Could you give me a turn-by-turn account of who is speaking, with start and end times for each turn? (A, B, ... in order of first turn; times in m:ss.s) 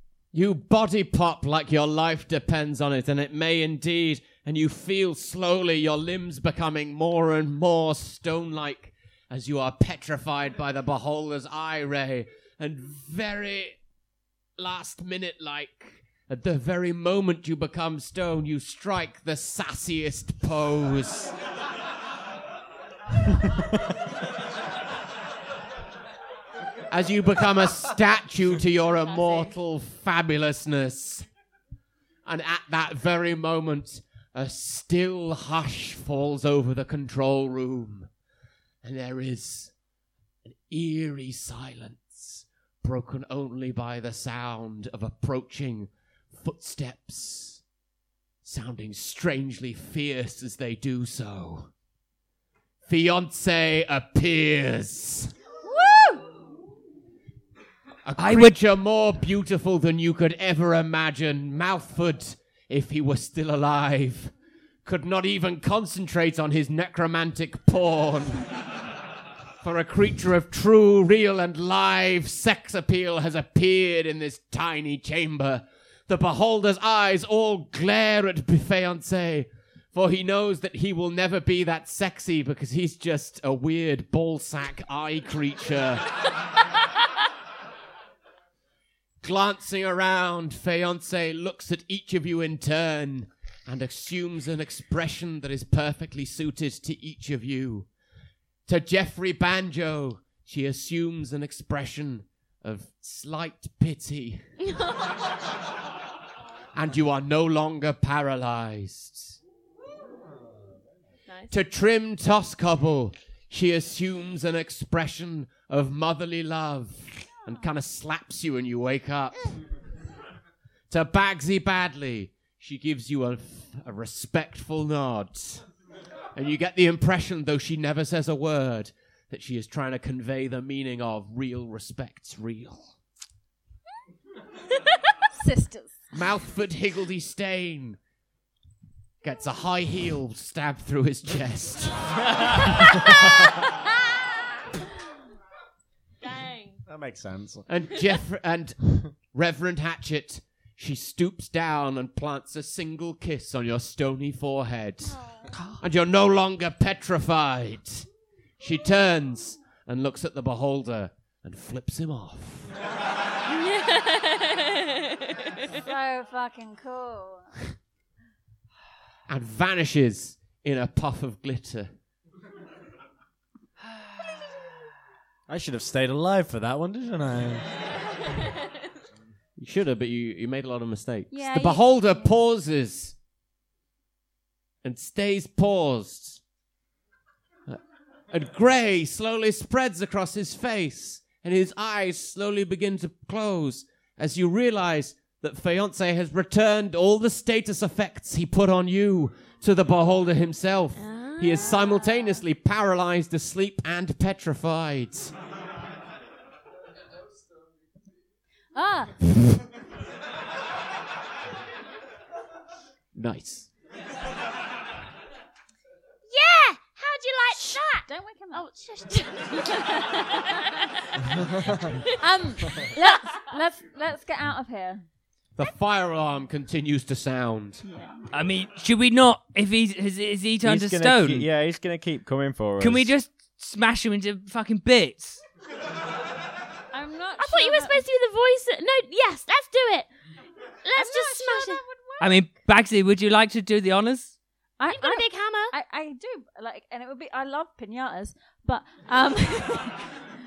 0:00.3-0:13.8 A
0:14.6-0:21.3 A
0:26.9-0:31.3 A
0:29.0-0:29.5 B
0:32.2-0:38.1 A
0:38.8-0:39.7 A
0:40.4-0:47.6 A
0:48.4-0:51.7 A
0:52.8-0:55.3 A
0:55.6-0:56.3 C
0:58.0-1:04.3 A
0:58.2-0:58.6 D
1:04.8-1:08.5 A
1:09.6-1:26.1 A
1:29.2-1:37.9 A
1:38.7-1:44.5 A
1:46.7-1:49.4 A
1:51.3-1:51.5 B
1:51.5-1:59.6 A
2:00.9-2:05.6 A
2:06.3-2:12.9 A
2:15.3-2:16.0 C
2:16.1-2:18.0 A
2:19.2-2:23.1 A
2:26.2-2:26.8 B
2:26.9-2:27.7 E
2:27.7-2:35.2 A
2:35.0-2:35.5 B
2:35.8-2:38.0 A
2:38.6-2:42.7 A
2:43.5-2:45.7 B
2:45.8-2:47.5 C
2:49.3-2:51.9 A
2:55.5-2:57.6 E
2:59.6-3:03.2 A
3:01.3-3:02.3 C
3:04.8-3:06.4 A
3:08.3-3:25.3 A
3:21.0-3:22.4 B
3:28.7-3:29.2 C
3:33.1-3:33.7 A
3:36.3-3:40.8 B
3:37.5-3:38.6 C
3:39.5-3:40.6 C
3:42.2-3:45.0 C
3:42.7-3:43.1 B
3:45.6-3:47.8 A
3:47.8-3:48.3 C
3:48.3-3:51.5 D
3:50.6-3:53.1 F
3:52.8-3:55.4 D
3:56.9-3:58.0 C
3:57.4-4:00.1 B
4:00.8-4:01.8 B
4:00.9-4:02.4 C
4:02.2-4:04.3 D
4:04.8-4:10.1 C
4:04.9-4:05.7 B